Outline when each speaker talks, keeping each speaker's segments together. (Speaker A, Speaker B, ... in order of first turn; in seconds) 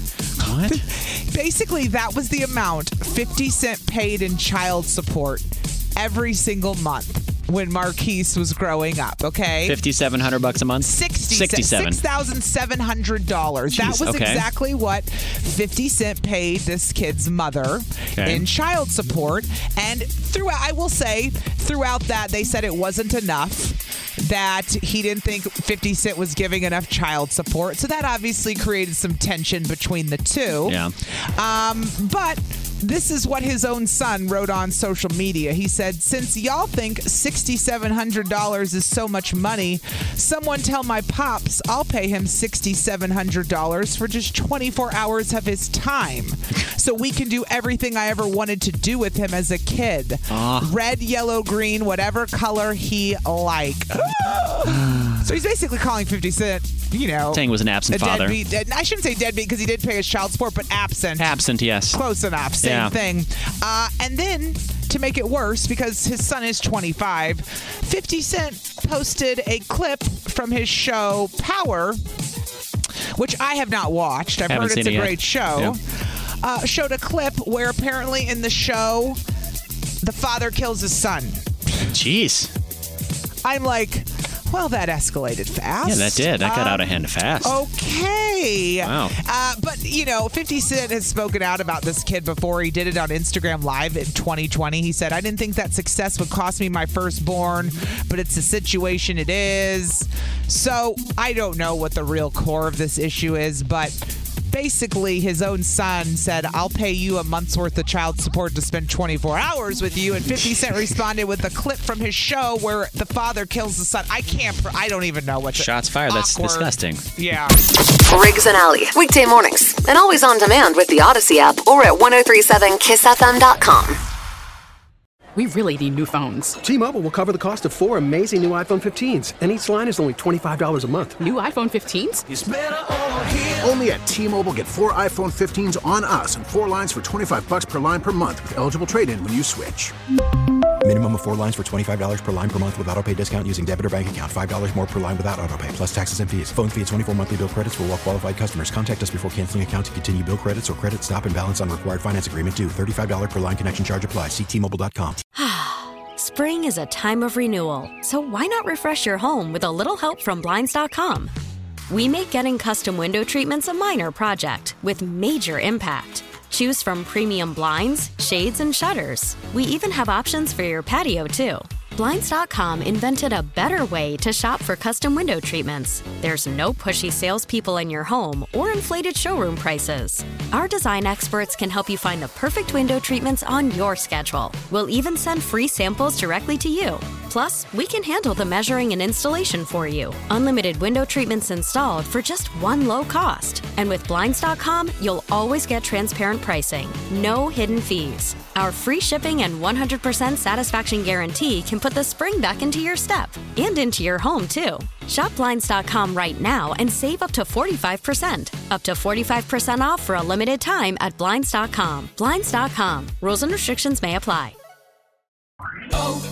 Speaker A: 0.4-0.8, 9.7-12.0, 13.7-14.4, 18.2-18.4, 30.6-30.9, 50.3-50.7, 54.6-55.2, 57.3-58.4, 61.2-62.0, 62.6-62.9, 74.5-75.8, 81.9-82.5, 85.8-87.5, 88.8-89.1, 115.5-117.0
Speaker B: 0.7-9.8, 10.8-30.8, 31.4-61.3, 61.9-72.0, 73.1-79.2, 80.0-81.4, 83.4-117.6
Speaker C: 117.9-124.0
Speaker D: 125.3-126.6, 131.2-132.2
Speaker E: 126.6-131.2
Speaker F: 133.2-139.9
Speaker G: 140.8-155.2
Speaker H: 155.4-161.3, 161.9-214.5